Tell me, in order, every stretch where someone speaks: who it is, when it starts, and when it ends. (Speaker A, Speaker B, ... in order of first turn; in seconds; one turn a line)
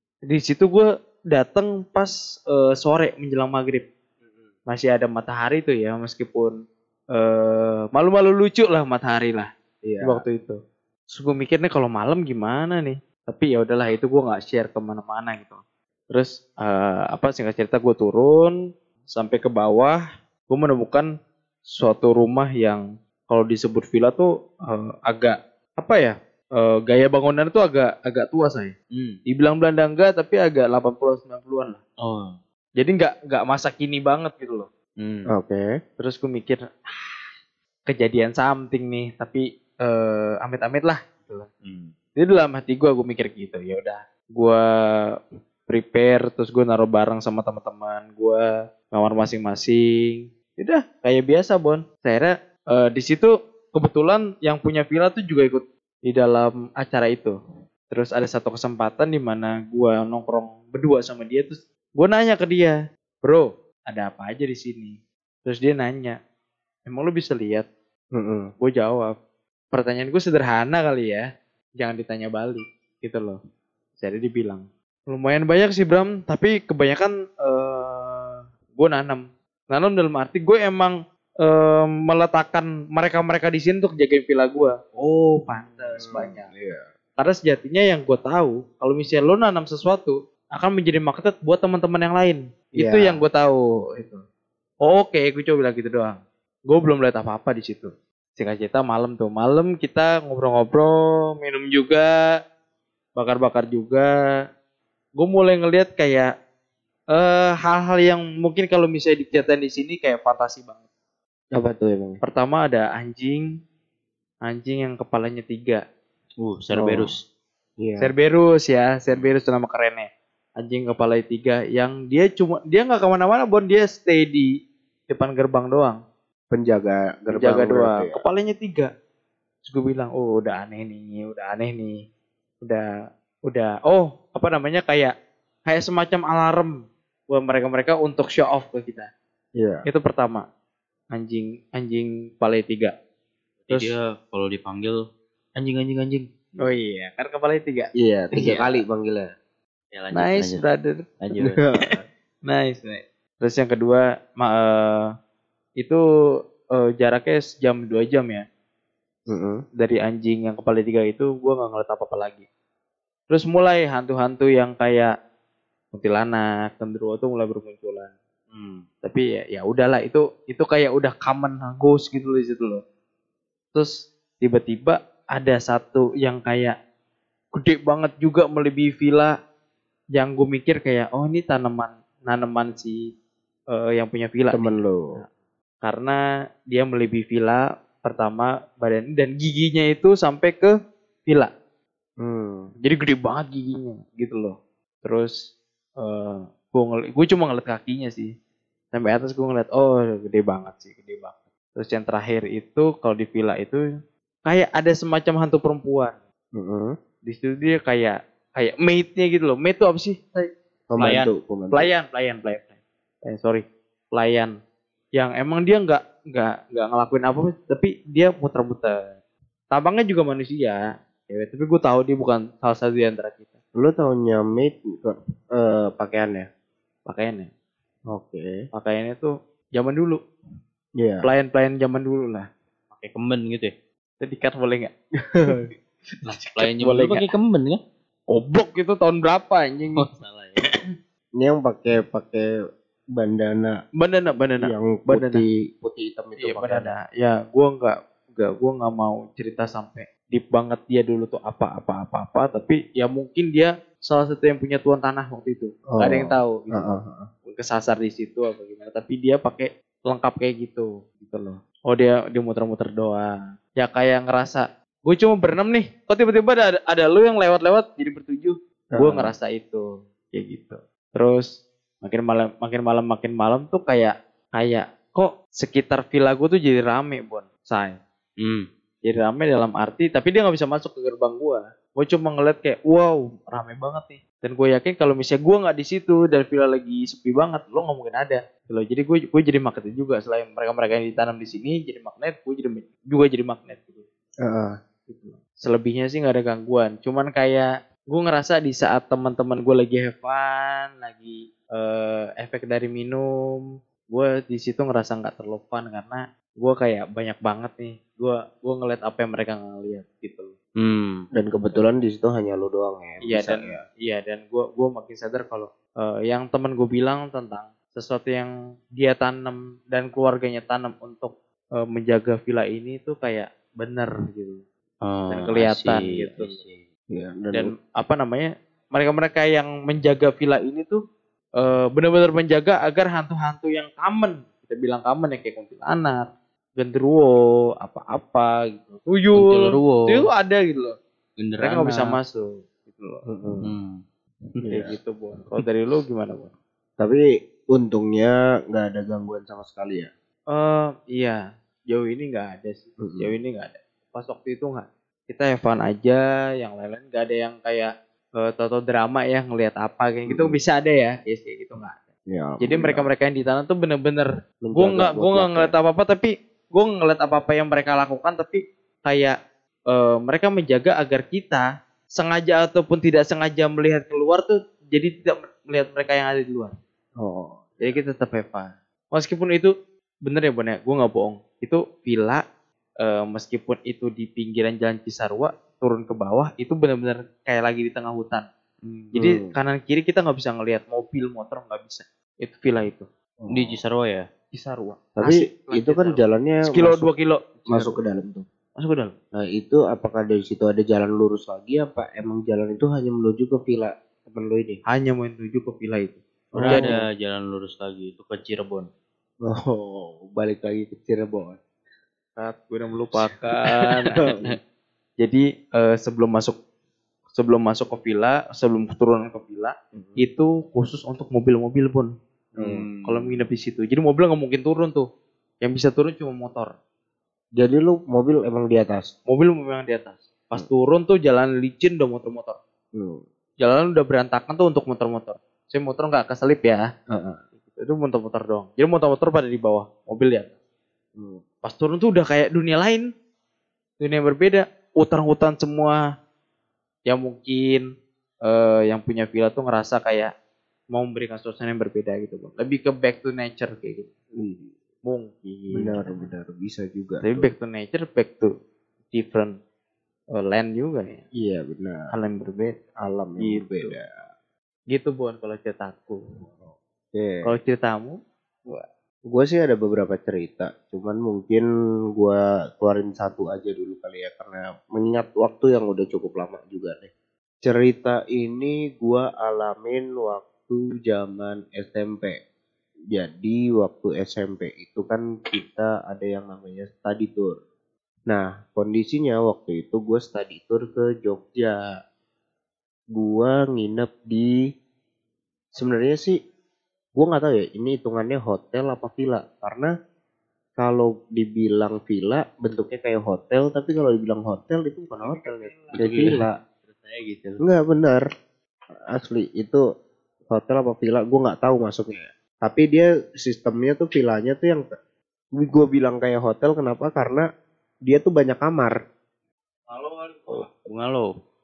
Speaker A: 0.3-3.9
Speaker A: 4.7-6.5
Speaker A: 7.1-9.5
Speaker B: 9.8-10.2
Speaker A: 10.0-10.6
Speaker A: 11.1-15.6
Speaker A: 16.1-18.5
Speaker A: 19.1-21.1
Speaker A: 21.7-28.7
Speaker C: 28.9-29.2
Speaker A: 29.3-31.8
Speaker C: 32.0-32.4
Speaker A: 32.8-34.7
Speaker C: 35.0-35.3
Speaker B: 35.3-35.7
Speaker A: 36.0-37.2
Speaker A: 37.9-41.5
Speaker C: 41.6-41.9
Speaker A: 42.1-44.6
Speaker A: 45.7-57.4
Speaker A: 57.9-66.2
Speaker A: 66.9-67.7
Speaker B: 68.1-68.5
Speaker A: 68.6-69.1
Speaker A: 69.7-71.2
Speaker A: 71.8-73.4
Speaker A: 74.0-86.5
Speaker C: 85.5-86.0
Speaker B: 86.0-86.8
Speaker A: 87.2-94.2
Speaker B: 92.8-93.2
Speaker A: 94.8-102.1
Speaker A: 103.2-104.1
Speaker A: 105.2-106.3
Speaker A: 107.1-110.8
Speaker B: 111.5-112.2
Speaker A: 112.2-113.5
Speaker A: 114.4-115.8
Speaker C: 116.4-117.2
Speaker B: 116.8-117.1
Speaker B: 117.8-118.1
Speaker A: 118.0-120.1
Speaker A: 120.6-124.5
Speaker A: 125.1-126.0
Speaker B: 126.5-128.2
Speaker A: 127.3-128.9
Speaker A: 129.6-132.0
Speaker A: 133.5-135.1
Speaker A: 135.7-136.7
Speaker A: 137.3-139.1
Speaker B: 139.6-139.8
Speaker A: 139.9-140.4
Speaker A: 141.1-142.9
Speaker C: 143.7-145.0
Speaker C: 145.6-146.3
Speaker A: 146.6-147.9
Speaker B: 148.0-149.3
Speaker C: 149.9-150.6
Speaker A: 150.1-151.1
Speaker C: 151.2-151.6
Speaker B: 151.4-151.9
Speaker A: 152.5-155.1
Speaker A: 156.8-158.4
Speaker B: 159.3-159.6
Speaker A: 159.8-162.4
Speaker A: 163.3-165.1
Speaker A: 165.9-168.1
Speaker C: 168.5-168.8
Speaker A: 169.0-172.8
Speaker A: 173.7-176.7
Speaker A: 177.5-179.3
Speaker A: 180.1-183.0
Speaker A: 183.7-185.3
Speaker B: 184.5-185.1
Speaker A: 185.8-186.2
Speaker A: 186.7-190.7
Speaker B: 192.2-192.7
Speaker A: 192.8-195.3
Speaker A: 196.0-198.3
Speaker A: 198.9-203.8
Speaker A: 204.4-206.2
Speaker B: 206.6-206.9
Speaker A: 207.2-212.7
Speaker B: 210.9-211.9
Speaker A: 213.3-214.5
Speaker A: 215.2-219.0
Speaker A: 219.7-223.6
Speaker B: 223.7-226.5
Speaker A: 227.1-227.5
Speaker B: 228.1-228.6
Speaker A: 228.7-230.2
Speaker B: 231.0-231.3
Speaker A: 231.2-232.5
Speaker C: 232.9-233.7
Speaker A: 234.2-234.9
Speaker B: 235.3-235.6
Speaker A: 236.2-237.3
Speaker C: 236.6-237.8
Speaker A: 238.3-240.1
Speaker C: 240.0-240.7
Speaker B: 241.4-242.4
Speaker B: 243.1-243.8
Speaker A: 244.0-245.4
Speaker B: 244.6-246.9
Speaker A: 246.4-256.9
Speaker B: 255.9-257.3
Speaker A: 257.4-271.5
Speaker B: 268.9-269.3
Speaker A: 272.0-278.0
Speaker C: 278.4-278.7
Speaker A: 279.0-294.1
Speaker B: 294.4-294.7
Speaker A: 295.1-303.2
Speaker A: 304.1-310.6
Speaker C: 310.8-311.3
Speaker B: 311.4-313.8
Speaker A: 313.2-324.6
Speaker C: 325.0-326.9
Speaker A: 325.3-326.6
Speaker B: 327.1-327.7
Speaker A: 327.5-331.0
Speaker A: 331.6-336.3
Speaker A: 336.8-340.9
Speaker C: 339.4-340.3
Speaker C: 341.4-342.2
Speaker A: 341.6-343.2
Speaker B: 343.2-343.7
Speaker C: 343.6-344.0
Speaker B: 344.6-344.9
Speaker A: 344.7-346.5
Speaker B: 347.0-350.1
Speaker A: 350.5-362.0
Speaker B: 353.0-353.3
Speaker B: 360.3-360.6
Speaker B: 362.3-363.1
Speaker A: 362.6-369.4
Speaker B: 364.6-365.7
Speaker A: 369.9-371.6
Speaker A: 372.2-376.7
Speaker B: 377.2-377.9
Speaker A: 377.8-379.7
Speaker A: 380.2-382.4
Speaker A: 383.0-388.4
Speaker C: 388.8-389.1
Speaker B: 389.1-389.6
Speaker A: 389.1-393.1
Speaker B: 393.4-393.8
Speaker C: 393.5-394.3
Speaker A: 394.5-398.0
Speaker B: 395.1-397.1
Speaker B: 397.7-398.4
Speaker A: 398.8-399.1
Speaker B: 399.4-404.8
Speaker A: 404.9-406.9
Speaker B: 406.5-407.0
Speaker C: 406.6-408.9
Speaker B: 409.4-411.6
Speaker A: 412.5-414.3
Speaker B: 414.2-414.6
Speaker A: 415.2-416.6
Speaker A: 417.4-425.1
Speaker B: 419.9-420.2
Speaker B: 422.6-423.4
Speaker A: 425.6-426.7
Speaker B: 427.6-429.1
Speaker A: 429.3-432.6
Speaker B: 432.9-433.2
Speaker A: 433.6-436.8
Speaker B: 437.1-437.4
Speaker A: 437.7-440.5
Speaker B: 441.1-441.4
Speaker A: 441.6-443.1
Speaker A: 444.0-446.0
Speaker A: 447.1-447.9
Speaker A: 448.4-450.3
Speaker A: 450.9-454.1
Speaker B: 454.4-454.7
Speaker A: 455.1-456.2
Speaker B: 455.7-457.5
Speaker A: 457.2-458.5
Speaker A: 459.1-459.6
Speaker A: 460.3-461.2
Speaker B: 461.4-462.1
Speaker A: 462.1-462.8
Speaker B: 463.0-464.1
Speaker A: 463.4-463.9
Speaker A: 464.9-466.2
Speaker B: 467.1-467.5
Speaker A: 467.4-468.1
Speaker B: 469.3-471.6
Speaker B: 472.2-477.1
Speaker B: 477.6-482.4
Speaker B: 483.1-487.6
Speaker B: 488.3-491.8
Speaker B: 493.1-494.5
Speaker B: 495.7-496.4
Speaker B: 497.1-499.9
Speaker B: 500.8-506.6
Speaker C: 505.2-507.6
Speaker B: 507.6-508.2
Speaker B: 509.1-509.8
Speaker B: 510.5-514.9
Speaker B: 515.6-517.4
Speaker B: 518.1-518.9
Speaker A: 519.9-520.5
Speaker C: 520.5-521.3